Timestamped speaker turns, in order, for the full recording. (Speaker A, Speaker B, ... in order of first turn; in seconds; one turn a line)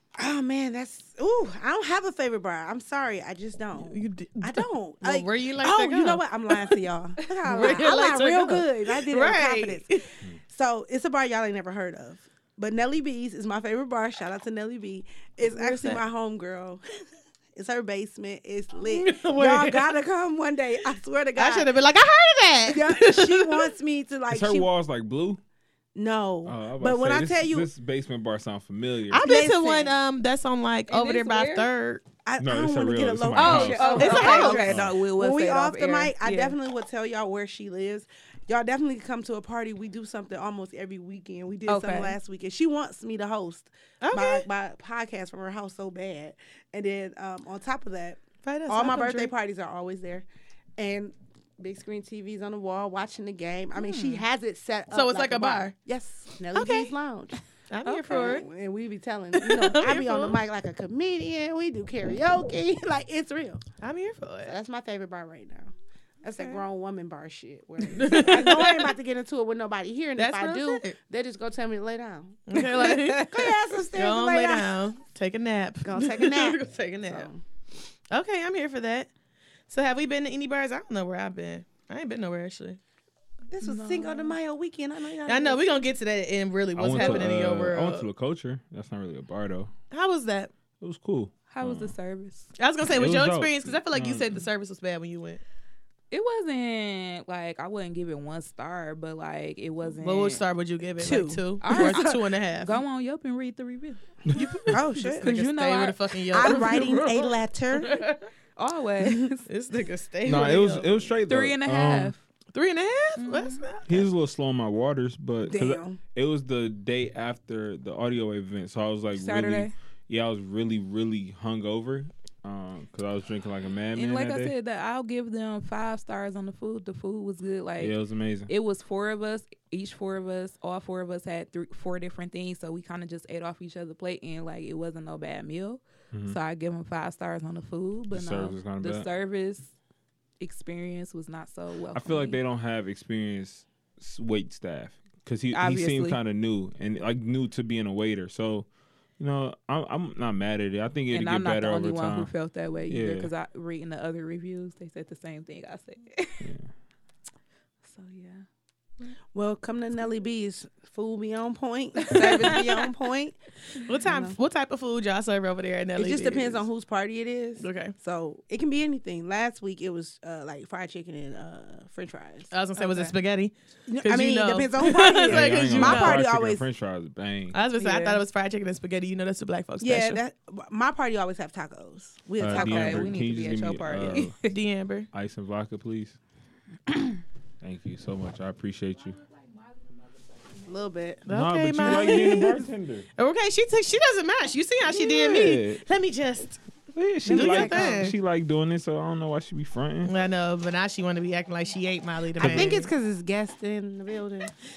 Speaker A: 0.1-9.8
Speaker B: 3.8-6.8
Speaker B: 7.4-10.1
Speaker A: 10.5-16.8
Speaker B: 15.5-16.0
Speaker A: 17.5-21.7
Speaker B: 18.8-20.0
Speaker B: 21.4-23.7
Speaker A: 22.7-24.7
Speaker C: 24.3-25.4
Speaker A: 25.9-27.7
Speaker C: 26.4-29.3
Speaker B: 29.1-32.0
Speaker A: 29.2-29.9
Speaker D: 30.9-31.7
Speaker A: 32.2-50.2
Speaker C: 32.4-34.0
Speaker D: 33.3-36.5
Speaker B: 34.0-34.7
Speaker C: 34.6-34.9
Speaker D: 41.7-42.2
Speaker B: 44.0-44.5
Speaker B: 48.4-49.3
Speaker A: 50.8-57.4
Speaker D: 53.7-54.2
Speaker B: 54.9-55.7
Speaker B: 56.5-56.9
Speaker B: 57.7-58.5
Speaker D: 57.9-58.4
Speaker A: 58.1-63.6
Speaker B: 59.3-60.4
Speaker B: 63.8-64.5
Speaker A: 64.5-72.5
Speaker D: 66.3-66.6
Speaker B: 67.9-68.9
Speaker B: 70.2-71.0
Speaker B: 72.5-77.3
Speaker D: 72.6-73.2
Speaker A: 73.2-74.7
Speaker A: 75.8-77.4
Speaker B: 78.1-79.1
Speaker B: 79.7-82.8
Speaker A: 83.5-85.6
Speaker D: 83.6-84.4
Speaker B: 85.3-88.1
Speaker C: 86.8-89.7
Speaker B: 89.9-90.5
Speaker C: 90.8-91.9
Speaker D: 91.5-92.5
Speaker B: 92.6-95.4
Speaker C: 92.9-94.5
Speaker D: 96.1-100.4
Speaker B: 100.0-102.7
Speaker A: 101.0-102.2
Speaker D: 101.0-104.0
Speaker B: 104.3-108.2
Speaker A: 104.7-105.3
Speaker D: 105.1-106.8
Speaker A: 106.3-108.0
Speaker D: 108.5-109.5
Speaker B: 109.5-111.0
Speaker C: 110.2-112.1
Speaker D: 111.3-112.2
Speaker B: 112.5-114.1
Speaker D: 113.2-113.6
Speaker C: 113.9-124.5
Speaker A: 115.5-116.0
Speaker D: 119.2-119.7
Speaker D: 123.9-127.9
Speaker C: 127.8-128.5
Speaker D: 128.5-139.7
Speaker C: 136.1-136.4
Speaker C: 138.1-139.1
Speaker D: 140.4-142.4
Speaker C: 141.9-148.7
Speaker D: 145.5-146.2
Speaker C: 149.2-152.3
Speaker D: 151.1-156.5
Speaker C: 152.9-153.3
Speaker C: 156.4-156.7
Speaker D: 157.8-158.4
Speaker A: 159.3-163.3
Speaker D: 162.1-162.9
Speaker B: 163.8-166.7
Speaker A: 164.0-164.4
Speaker A: 165.9-172.5
Speaker B: 167.6-167.9
Speaker B: 172.5-176.2
Speaker D: 172.8-173.1
Speaker A: 173.9-176.6
Speaker C: 174.8-177.6
Speaker B: 177.5-180.2
Speaker A: 177.8-178.2
Speaker A: 179.8-183.1
Speaker C: 182.4-184.3
Speaker D: 182.5-184.5
Speaker B: 184.1-185.1
Speaker C: 185.1-186.2
Speaker C: 187.6-189.2
Speaker A: 190.6-191.2
Speaker B: 191.3-192.7
Speaker C: 191.3-193.1
Speaker B: 193.2-196.6
Speaker C: 194.8-195.8
Speaker C: 196.9-200.1
Speaker A: 197.2-198.1
Speaker B: 197.3-198.1
Speaker B: 200.1-202.9
Speaker A: 202.4-204.5
Speaker C: 202.4-202.8